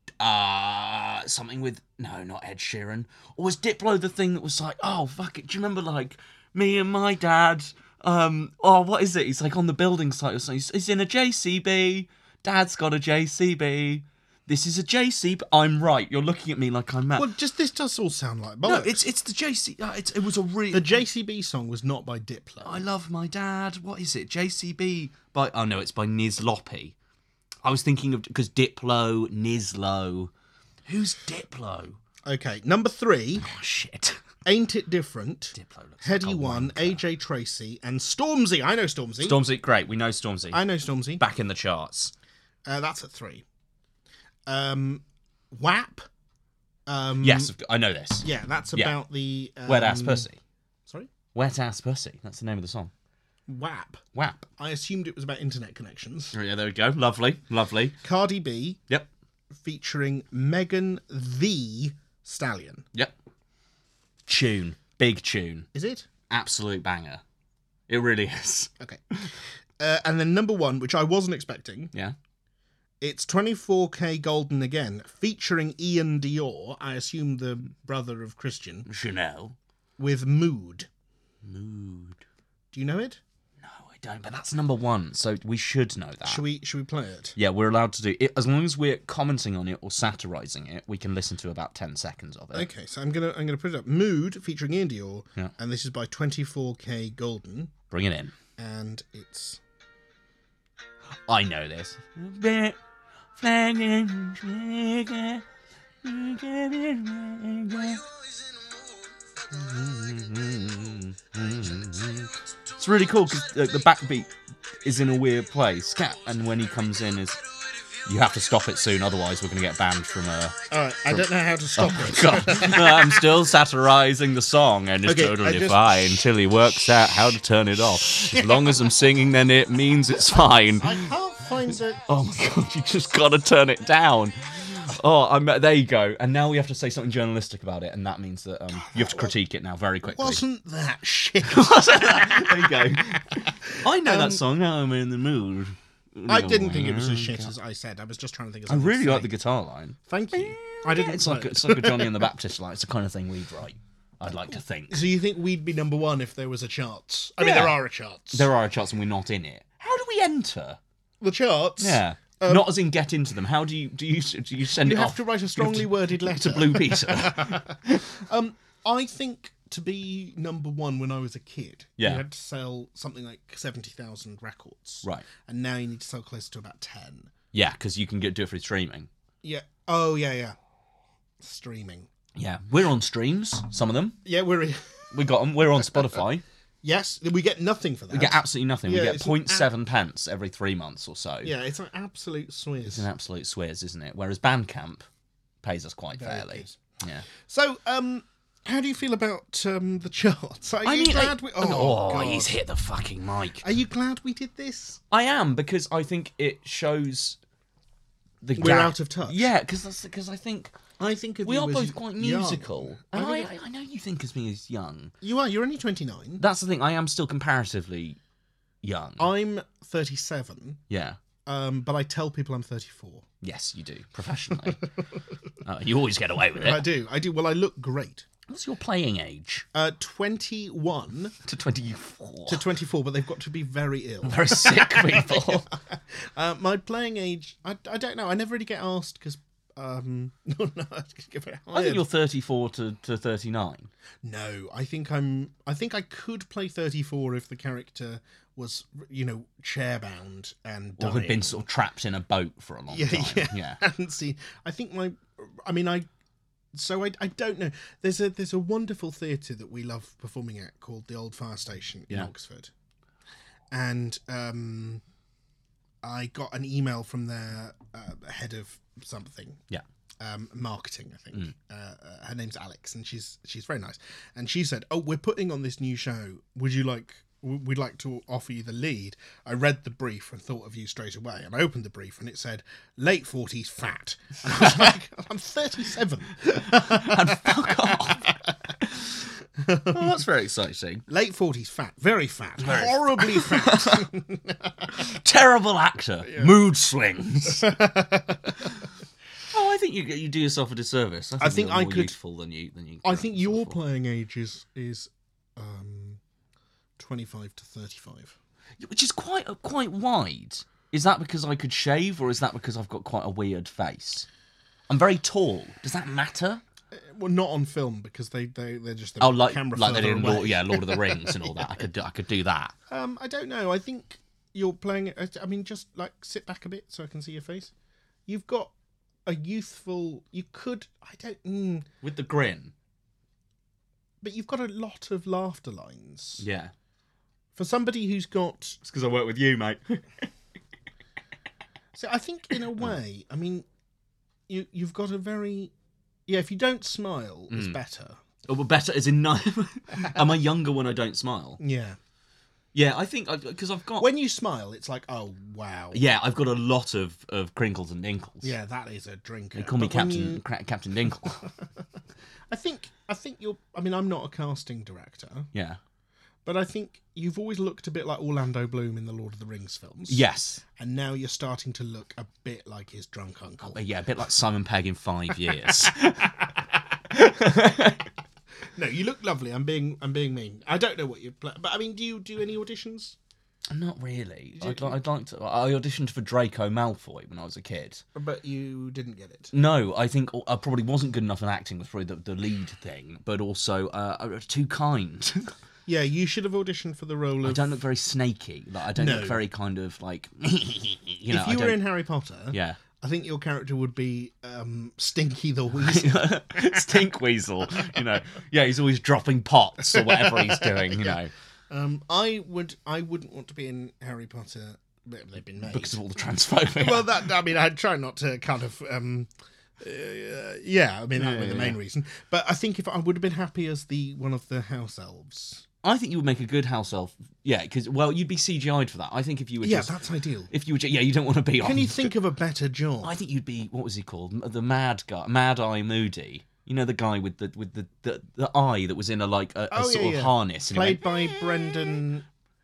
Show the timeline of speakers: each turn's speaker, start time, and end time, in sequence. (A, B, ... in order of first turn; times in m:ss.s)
0:00.2-0:17.3 A
0:17.1-0:19.0 B
0:18.6-0:21.0 A
0:20.7-0:22.8 B
0:22.6-0:26.9 A
0:27.6-0:30.3 A
0:30.8-0:32.0 A
0:32.2-0:33.4 B
0:33.4-0:34.2 A
0:34.4-0:39.4 B
0:35.5-0:37.0 A
0:39.2-0:40.6 A
0:40.5-0:41.2 B
0:41.2-0:42.1 A
0:42.6-0:43.4 B
0:44.5-0:46.0 B
0:46.9-0:47.5 B
0:47.2-0:48.9 A
0:48.2-0:50.3 B
0:49.6-0:50.4 A
0:51.3-0:52.9 A
0:53.5-0:54.0 B
0:54.1-0:54.4 A
0:54.6-0:56.3 B
0:56.3-0:58.0 A
0:58.0-0:58.8 B
0:59.5-1:02.8 B
1:04.3-1:05.7 A
1:05.7-1:06.1 B
1:06.3-1:07.2 A
1:07.9-1:09.3 A
1:09.8-1:11.9 B
1:13.0-1:18.9 B
1:18.8-1:19.6 A
1:20.0-1:20.9 B
1:21.4-1:22.2 A
1:22.7-1:23.2 B
1:23.6-1:26.4 A
1:26.2-1:27.4 B
1:27.4-1:32.7 A
1:32.5-1:37.7 B
1:37.9-1:38.3 A
1:38.6-1:39.6 B
1:41.3-1:42.8 A
1:43.4-1:45.4 A
1:46.0-1:48.0 A
1:49.5-1:57.4 A
1:58.0-2:00.6 A
2:00.7-2:03.3 B
2:01.1-2:11.1 A
2:05.0-2:06.1 B
2:08.3-2:08.7 B
2:10.3-2:12.1 B
2:12.0-2:20.4 A
2:18.8-2:19.3 B
2:20.1-2:24.4 B
2:21.4-2:27.5 A
2:26.3-2:29.3 B
2:28.7-2:35.0 A
2:30.1-2:32.3 B
2:34.9-2:38.5 B
2:37.4-2:37.8 A
2:38.3-2:40.8 A
2:41.2-2:42.7 B
2:41.8-2:48.0 A
2:44.8-2:57.3 B
2:52.0-2:52.2 A
2:57.5-2:59.1 A
2:59.4-3:00.6 B
3:01.4-3:02.1 B
3:02.4-3:04.2 A
3:04.2-3:05.1 B
3:05.1-3:06.4 A
3:05.9-3:06.2 B
3:06.8-3:09.7 B
3:08.1-3:11.5 A
3:11.4-3:13.1 B
3:12.9-3:15.1 A
3:15.6-3:17.2 A
3:16.1-3:16.8 B
3:17.3-3:22.6 B
3:20.8-3:23.6 A
3:23.6-3:25.0 B
3:25.1-3:27.4 A
3:28.4-3:30.8 A
3:28.6-3:29.5 B
3:31.0-3:33.5 B
3:31.4-3:35.1 A
3:35.2-3:36.4 B
3:36.4-3:38.2 A
3:38.8-3:39.3 A
3:39.2-3:40.8 B
3:40.9-3:41.2 A
3:41.4-3:43.2 B
3:43.4-3:44.8 A
3:45.6-3:46.8 A
3:46.6-3:48.3 B
3:48.5-3:49.6 A
3:49.7-3:51.3 B
3:51.4-3:52.6 A
3:52.5-4:02.0 B
3:54.2-3:55.7 A
4:01.7-4:03.9 A
4:04.2-4:11.6 B
4:11.0-4:13.8 A
4:12.9-4:16.1 B
4:16.7-4:22.7 B
4:23.7-4:25.0 B
4:26.0-4:29.6 B
4:30.2-4:48.7 B
4:44.5-4:44.9 A
4:46.5-4:49.1 A
4:49.6-4:50.1 B
4:49.9-4:51.0 A
4:51.1-4:55.0 B
4:52.6-4:54.1 A
4:54.9-4:57.7 A
4:56.2-4:56.6 B
4:57.5-4:58.7 B
4:59.5-5:03.8 A
5:01.4-5:02.1 B
5:03.0-5:06.2 B
5:07.0-5:08.4 B
5:08.8-5:14.3 A
5:14.9-5:16.6 A
5:16.9-5:21.7 B
5:19.2-5:22.7 A
5:22.9-5:27.7 B
5:28.3-5:28.7 B
5:29.2-5:31.9 B
5:32.0-5:32.7 A
5:34.2-5:36.4 B
5:36.4-5:36.7 A
5:37.5-5:38.8 B
5:38.8-5:40.3 A
5:41.9-5:43.6 B
5:44.5-5:45.7 B
5:46.3-5:48.2 B
5:47.5-5:47.8 A
5:48.5-5:51.6 A
5:51.6-5:52.0 B
5:52.7-5:54.1 A
5:54.0-5:56.0 B
5:55.9-5:58.5 A
5:58.4-6:00.4 B
5:59.5-6:01.5 A
6:01.1-6:01.6 B
6:02.5-6:05.5 B
6:05.5-6:05.8 A
6:06.4-6:13.8 B
6:10.1-6:10.6 A
6:13.7-6:16.4 A
6:17.1-6:18.1 A
6:18.7-6:23.2 B
6:23.7-6:28.0 A
6:24.6-6:25.0 B
6:28.1-6:29.5 B
6:29.5-6:35.5 A
6:35.8-6:37.7 B
6:37.4-6:41.8 A
6:38.9-6:39.4 B
6:41.3-6:47.0 B
6:42.5-6:42.8 A
6:45.8-6:51.3 A
6:49.8-6:51.2 B
6:51.7-6:56.0 B
6:55.6-6:57.2 A
6:56.8-7:05.6 B
7:01.2-7:01.8 A
7:05.8-7:10.0 A
7:09.6-7:10.5 B
7:10.5-7:12.1 A
7:11.6-7:13.1 B
7:13.0-7:21.3 A
7:19.7-7:22.3 B